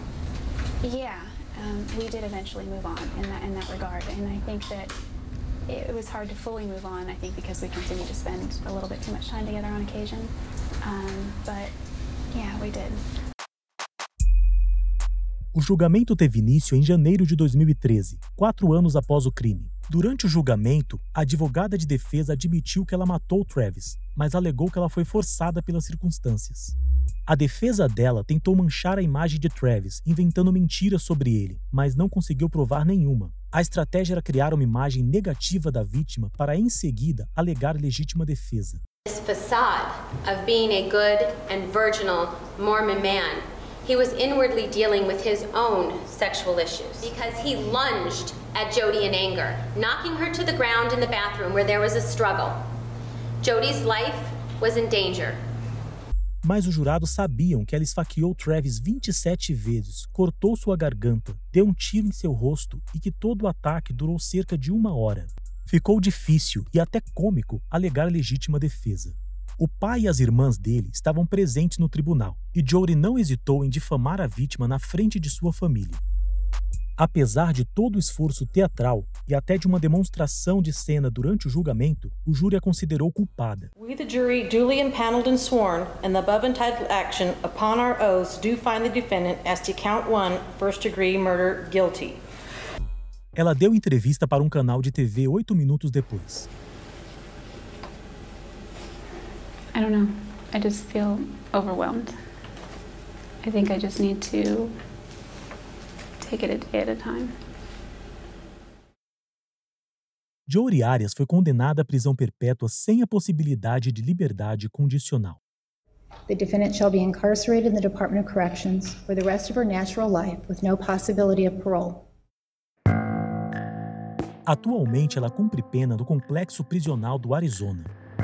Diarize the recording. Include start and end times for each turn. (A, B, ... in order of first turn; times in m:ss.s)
0:00.8-0:05.0 A
0:05.7-0:10.3 A
0:10.8-0:11.7 A
0:12.3-0:13.0 A
0:15.5-0:26.8 B
0:27.3-0:38.8 B
0:39.1-0:52.6 C
0:53.4-0:55.4 C
0:56.4-1:16.0 B
1:17.0-1:23.7 B
1:23.8-1:32.2 D
1:33.4-1:36.5 B
1:39.7-1:42.2 A
1:43.4-1:44.7 A
1:46.2-1:47.3 A
1:50.5-1:55.4 B
1:56.3-2:02.1 E
2:04.5-2:07.9 B